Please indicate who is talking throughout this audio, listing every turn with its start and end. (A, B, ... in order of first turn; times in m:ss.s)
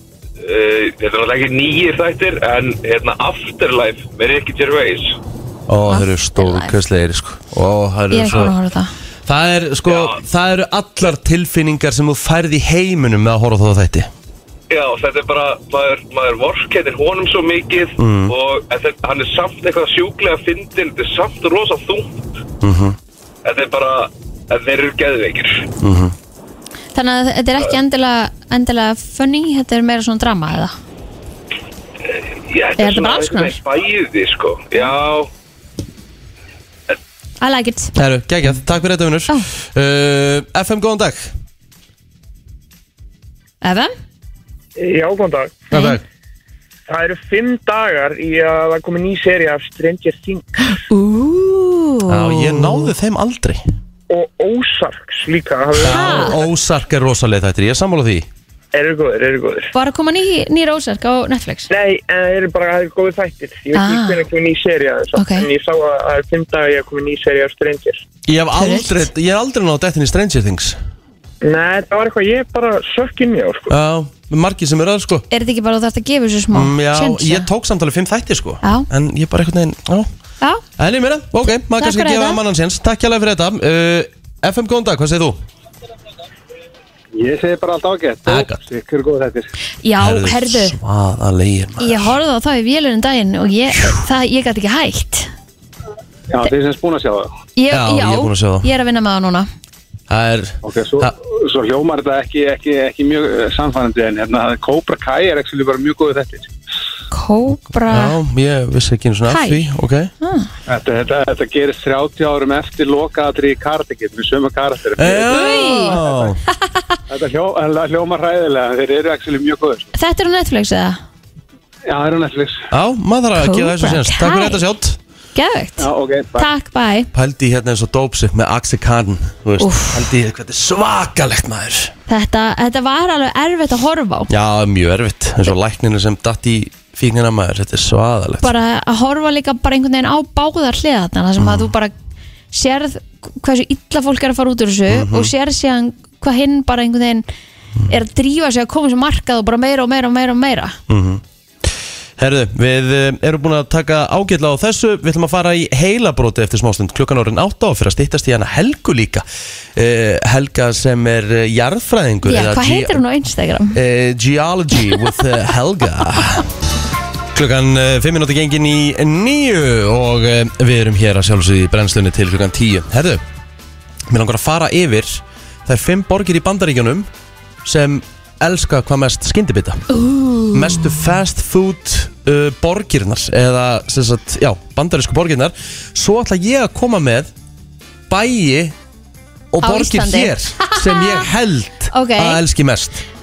0:00.4-0:05.2 A
0:05.7-0:08.5 B
0:05.9-0:06.7 C
0:08.1-0:08.9 C
0:09.2-0:14.1 B
0:09.9-0:10.2 A
0:14.7-0:22.3 A
0:18.0-0:18.3 B
0:22.6-0:23.0 B
0:23.4-0:25.7 A
0:25.8-0:26.1 B
0:26.9-0:30.7 C
0:32.1-0:35.3 A
0:32.8-0:33.6 C
0:37.4-0:37.9 C
0:37.9-0:41.3 B
0:43.6-0:43.9 C
0:44.8-0:45.7 D
0:45.7-0:46.0 C
0:45.7-0:46.0 B
0:46.9-0:50.8 D
0:50.9-0:52.9 C
0:52.1-0:53.6 B
0:54.1-0:56.3 D
0:55.8-0:58.3 B
0:55.8-0:56.4 C
0:58.7-0:59.7 D
0:59.7-1:01.7 C
1:01.7-1:08.0 D
1:03.7-1:04.2 C
1:05.2-1:05.5 C
1:08.2-1:10.8 B
1:08.5-1:09.1 C
1:11.4-1:13.7 D
1:13.7-1:15.2 B
1:15.3-1:17.5 C
1:16.5-1:20.1 B
1:18.6-1:18.9 C
1:20.8-1:25.4 B
1:21.8-1:22.4 C
1:27.1-1:29.5 E
1:28.2-1:28.6 B
1:29.8-1:30.8 C
1:30.0-1:32.2 B
1:31.8-1:35.3 C
1:36.3-1:37.3 E
1:37.6-1:39.5 C
1:37.7-1:38.7 B
1:40.1-1:41.1 B
1:40.6-1:46.5 E
1:47.1-1:48.2 C
1:47.9-1:50.1 B
1:49.3-1:49.7 C
1:50.2-1:50.5 C
1:50.7-1:56.3 E
1:55.0-1:56.4 B
1:55.2-1:56.0 C
1:56.7-1:57.0 C
1:57.1-1:59.9 E
1:59.9-2:01.0 C
2:01.9-2:02.6 E
2:02.7-2:05.0 B
2:03.4-2:04.6 C
2:05.3-2:07.1 C
2:05.8-2:06.5 E
2:07.1-2:11.9 B
2:09.6-2:10.1 C
2:12.1-2:14.3 C
2:14.3-2:18.5 B
2:18.4-2:21.9 C
2:21.4-2:21.7 B
2:22.5-2:27.2 C
2:24.9-2:25.3 B
2:27.9-2:30.8 C
2:30.9-2:43.0 B
2:42.2-2:43.8 C
2:43.7-2:46.5 B
2:47.3-2:53.2 B
2:54.1-2:57.1 B
2:57.6-2:59.8 B
2:59.9-3:01.0 C
3:00.5-3:07.3 B
3:08.1-3:08.8 B
3:09.5-3:13.0 B
3:09.6-3:11.2 C
3:11.9-3:12.4 C